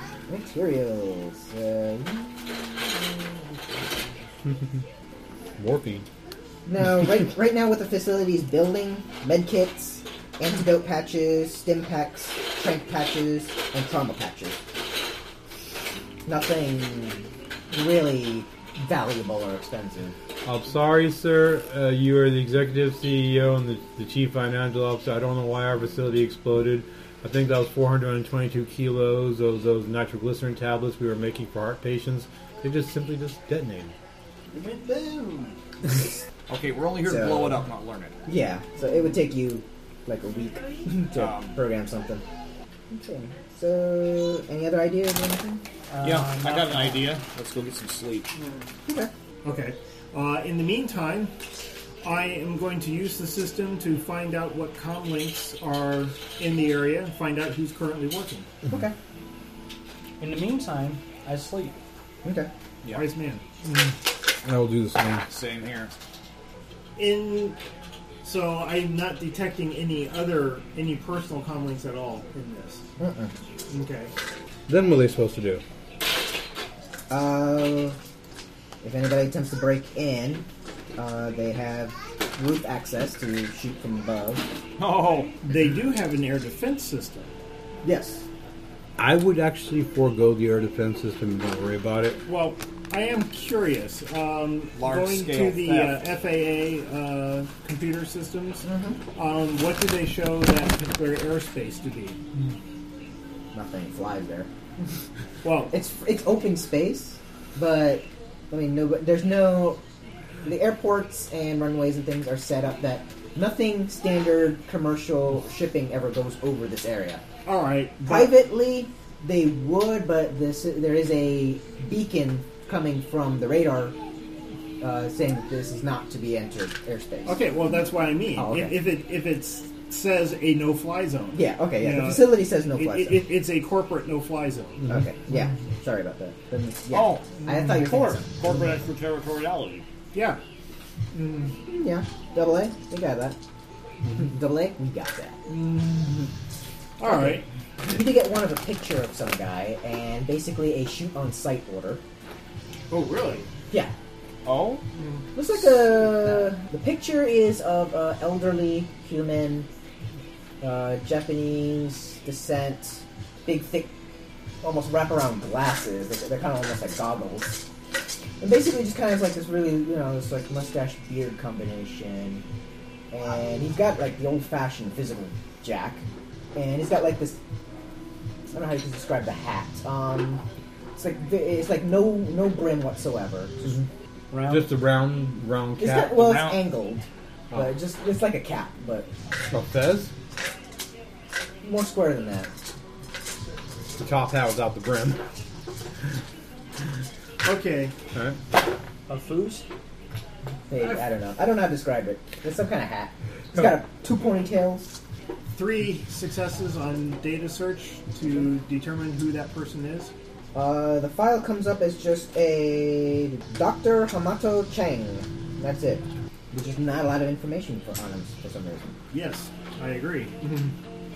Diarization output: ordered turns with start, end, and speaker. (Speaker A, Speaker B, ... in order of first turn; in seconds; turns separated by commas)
Speaker A: 0.3-4.0, Speaker B: 5.6-6.0, Speaker A: 6.7-14.6, Speaker A: 16.3-20.1, Speaker B: 20.4-33.9, Speaker C: 34.5-35.5, Speaker D: 36.5-38.1, Speaker A: 37.0-37.7, Speaker A: 38.3-42.2, Speaker D: 41.1-41.6, Speaker A: 42.9-45.6, Speaker E: 45.9-47.1, Speaker D: 46.0-48.3, Speaker C: 48.4-48.7, Speaker A: 48.9-49.1, Speaker C: 49.4-51.3, Speaker C: 52.0-58.5, Speaker A: 58.7-59.0, Speaker E: 60.2-61.8, Speaker A: 62.2-62.5, Speaker C: 62.9-63.9, Speaker B: 64.4-65.2, Speaker D: 65.3-65.9, Speaker C: 67.0-67.6, Speaker C: 68.2-72.8, Speaker A: 73.0-73.3, Speaker C: 73.7-74.1, Speaker B: 74.7-75.6, Speaker A: 77.1-78.0, Speaker A: 78.8-84.5, Speaker D: 84.8-85.3, Speaker C: 85.4-87.3, Speaker A: 87.8-88.2, Speaker B: 89.0-92.2, Speaker C: 92.2-102.2, Speaker D: 94.8-96.0, Speaker A: 98.7-99.0, Speaker A: 103.5-104.5, Speaker C: 105.4-105.7, Speaker A: 105.7-109.8, Speaker A: 110.4-117.2, Speaker C: 117.5-118.3, Speaker A: 118.0-124.0, Speaker A: 124.8-127.4, Speaker C: 127.2-135.0, Speaker A: 128.3-128.8, Speaker A: 131.3-133.3, Speaker A: 134.9-138.3, Speaker D: 136.9-139.8, Speaker C: 140.1-140.4, Speaker C: 141.1-141.6, Speaker A: 141.7-143.4, Speaker A: 144.2-145.4, Speaker C: 145.5-146.3, Speaker C: 147.0-147.5, Speaker A: 147.1-152.0, Speaker C: 152.9-153.5, Speaker D: 154.4-154.8, Speaker C: 155.0-155.3, Speaker A: 155.3-159.7, Speaker A: 160.6-163.9, Speaker A: 164.6-167.7, Speaker A: 168.4-172.4, Speaker A: 173.1-177.4, Speaker A: 178.5-180.4, Speaker A: 181.0-183.8, Speaker E: 184.3-184.7, Speaker B: 184.5-186.2, Speaker A: 185.8-189.1, Speaker D: 186.1-186.7, Speaker B: 189.5-190.1, Speaker A: 191.6-192.5, Speaker B: 194.0-195.2, Speaker C: 197.4-197.9, Speaker E: 199.1-199.7, Speaker A: 200.7-204.9, Speaker C: 200.8-201.0, Speaker C: 205.6-210.1, Speaker A: 210.5-219.0, Speaker C: 219.1-220.7